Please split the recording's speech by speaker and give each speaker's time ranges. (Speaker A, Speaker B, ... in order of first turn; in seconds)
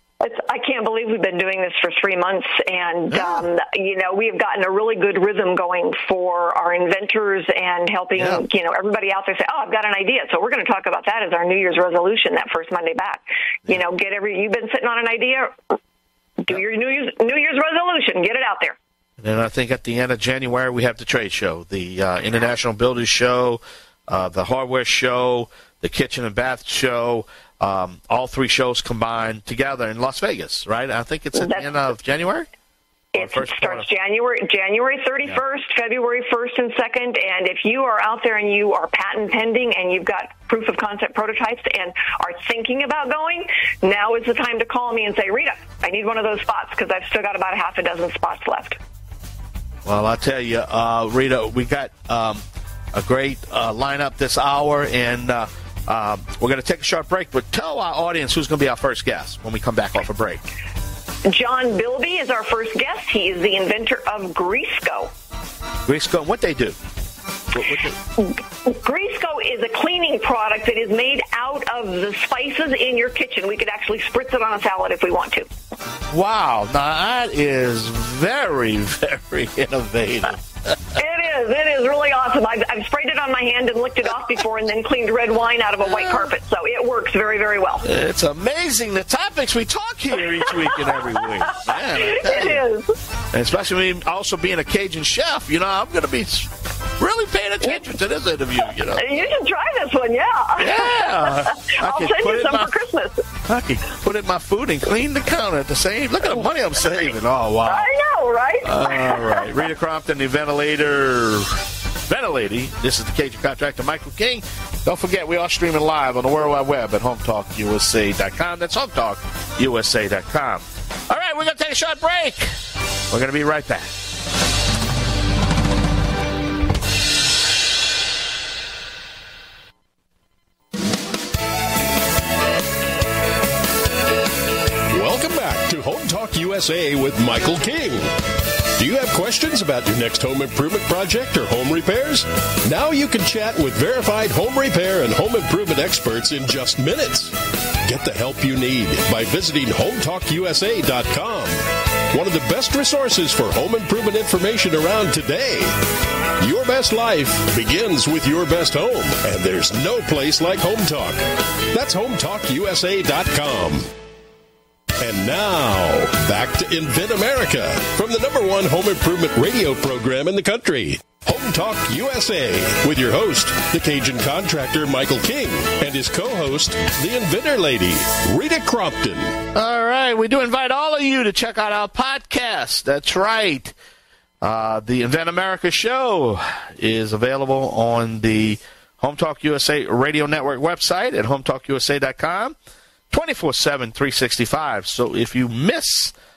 Speaker A: 0.2-15.5, 16.4-18.8, 31.4-31.7, 33.1-48.8, 61.2-65.1, 68.2-75.5, 81.0-87.8, 91.9-92.9, 99.0-103.3, 107.7-109.5
Speaker B: 3.1-3.5, 8.2-8.4, 19.2-32.5, 33.1-33.9, 49.8-52.4, 52.9-60.4, 65.8-66.8, 67.5-68.0, 76.1-80.4, 85.8-86.3, 87.8-92.6, 93.3-99.3, 100.6-102.7, 103.5-107.9, 108.6-111.5, 112.1-122.5, 123.1-123.9, 179.5-183.7, 184.4-192.6, 193.1-196.1
Speaker C: 134.9-138.1, 138.8-151.6, 152.1-155.7, 156.4-163.9, 165.0-179.4